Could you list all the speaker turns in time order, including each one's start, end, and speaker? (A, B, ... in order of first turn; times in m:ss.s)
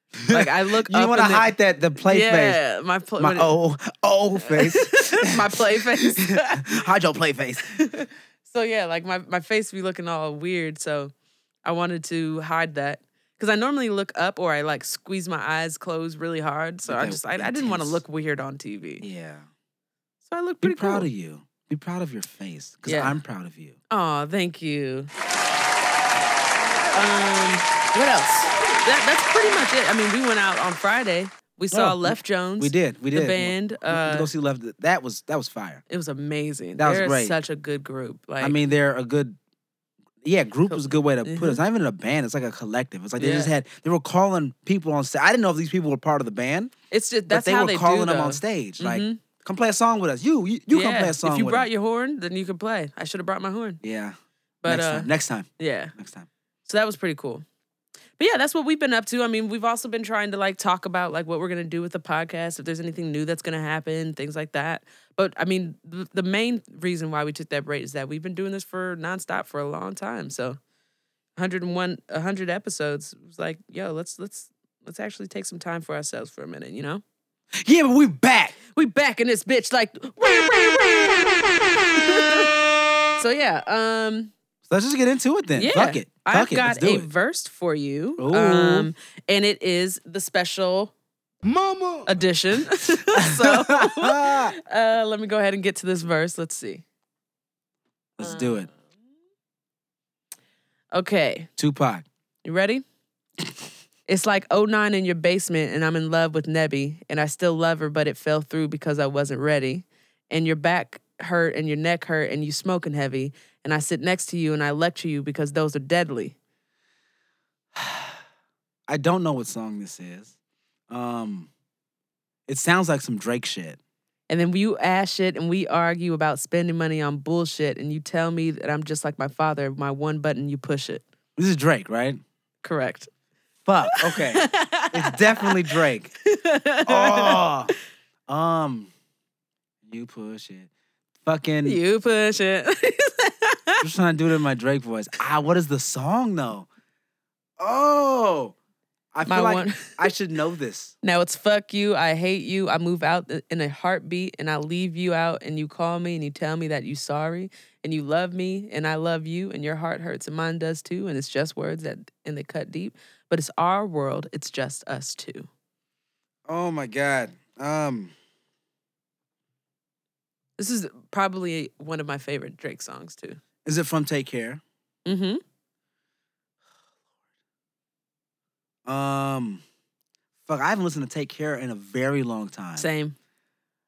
0:00.2-0:02.6 A
0:00.3-0:03.5 B
0:03.2-0:07.8 A
0:04.4-0:06.8 B
0:07.7-0:11.1 B
0:11.6-0:19.0 B
0:16.8-0:18.0 A
0:19.0-0:19.5 A
0:20.3-0:21.1 B
0:20.6-0:23.8 A
0:22.8-0:23.2 B
0:23.9-0:25.1 B
0:26.9-0:34.3 B
0:31.7-0:35.8 A
0:35.9-0:38.6 B
0:36.8-0:37.4 A
0:38.4-0:39.4 A
0:40.2-0:46.7 A
0:40.7-0:41.6 B
0:43.2-0:43.5 B
0:46.9-0:49.2 B
0:47.3-0:51.7 A
0:50.7-0:53.8 B
0:53.8-0:56.3 A
0:54.6-0:55.9 B
0:56.6-0:57.4 B
0:58.2-1:10.6 B
1:11.4-1:17.0 B
1:17.6-1:18.6 A
1:18.7-1:22.6 B
1:23.2-1:24.3 B
1:24.7-1:27.1 A
1:25.5-1:30.9 B
1:28.2-1:28.9 A
1:32.0-1:36.8 B
1:33.1-1:34.6 A
1:38.2-1:38.7 A
1:38.2-1:38.7 B
1:40.9-1:41.5 B
1:41.6-1:42.0 A
1:42.4-1:42.8 B
1:44.1-1:56.4 B
1:57.7-1:58.2 A
1:58.9-2:00.3 A
2:00.9-2:01.5 A
2:02.5-2:03.8 A
2:04.3-2:11.0 B
2:11.4-2:12.2 A
2:12.6-2:13.1 B
2:13.6-2:16.1 A
2:13.8-2:17.4 B
2:16.8-2:17.7 A
2:18.3-2:18.9 A
2:19.8-2:20.7 A
2:21.2-2:21.8 A
2:21.6-2:23.8 B
2:23.8-2:26.7 A
2:27.6-2:28.5 A
2:29.1-2:30.9 A
2:29.3-2:30.1 B
2:31.0-2:45.5 B
2:46.5-2:48.1 A
2:50.6-2:53.4 B
2:53.6-2:54.6 A
2:55.0-2:55.4 B
2:58.8-2:59.6 A
3:00.5-3:02.9 A
3:02.8-3:03.2 B